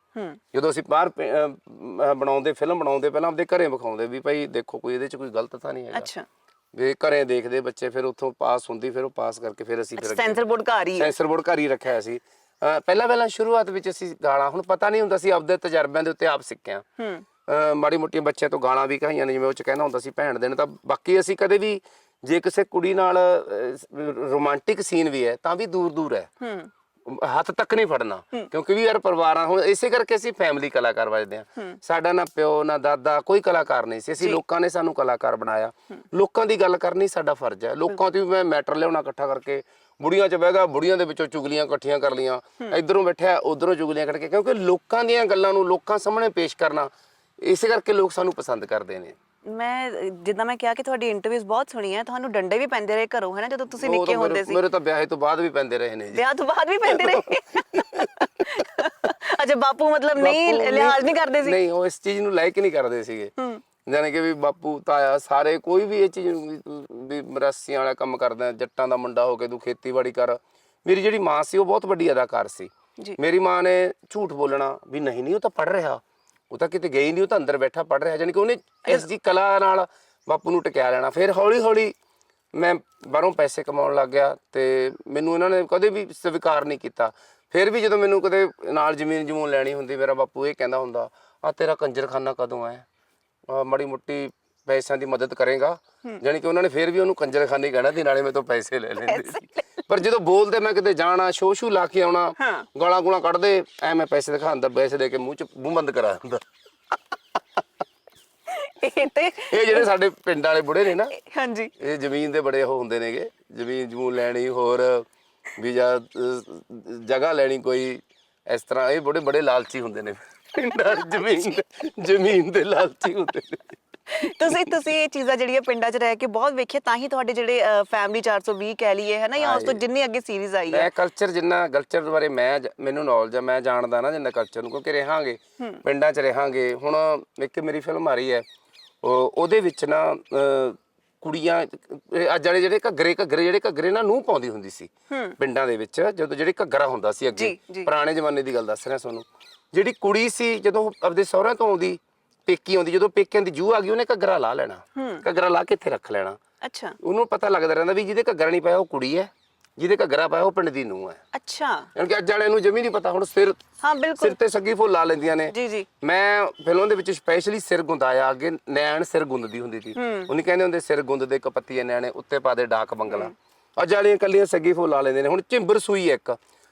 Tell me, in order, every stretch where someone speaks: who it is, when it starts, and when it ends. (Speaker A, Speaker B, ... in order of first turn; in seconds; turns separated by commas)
Speaker A: 0.1-0.4, Speaker B: 0.5-6.1, Speaker A: 5.9-6.3, Speaker B: 6.7-10.4, Speaker A: 10.0-11.2, Speaker B: 11.0-16.9, Speaker A: 17.0-17.2, Speaker B: 17.5-26.3, Speaker A: 26.4-26.7, Speaker B: 27.1-46.9, Speaker B: 47.4-49.2, Speaker A: 49.5-54.6, Speaker B: 53.8-56.2, Speaker A: 56.1-61.6, Speaker B: 56.8-58.4, Speaker B: 60.2-63.3, Speaker A: 63.4-63.6, Speaker B: 63.9-81.9, Speaker B: 82.5-92.8, Speaker B: 93.5-106.4, Speaker A: 99.0-99.6, Speaker A: 102.4-102.7, Speaker A: 108.5-109.9, Speaker B: 109.4-111.2, Speaker A: 111.1-111.7, Speaker B: 111.8-123.8, Speaker A: 120.7-121.5, Speaker A: 124.1-130.9, Speaker B: 129.4-129.8, Speaker B: 130.7-138.4, Speaker B: 139.0-156.4, Speaker A: 145.1-145.4, Speaker A: 147.3-147.9, Speaker A: 154.9-155.2, Speaker A: 156.6-157.0, Speaker B: 157.0-161.2, Speaker A: 161.3-161.9, Speaker B: 161.9-163.6, Speaker A: 163.8-164.4, Speaker B: 164.2-176.4, Speaker A: 165.5-165.9, Speaker A: 170.0-170.3, Speaker A: 173.1-173.3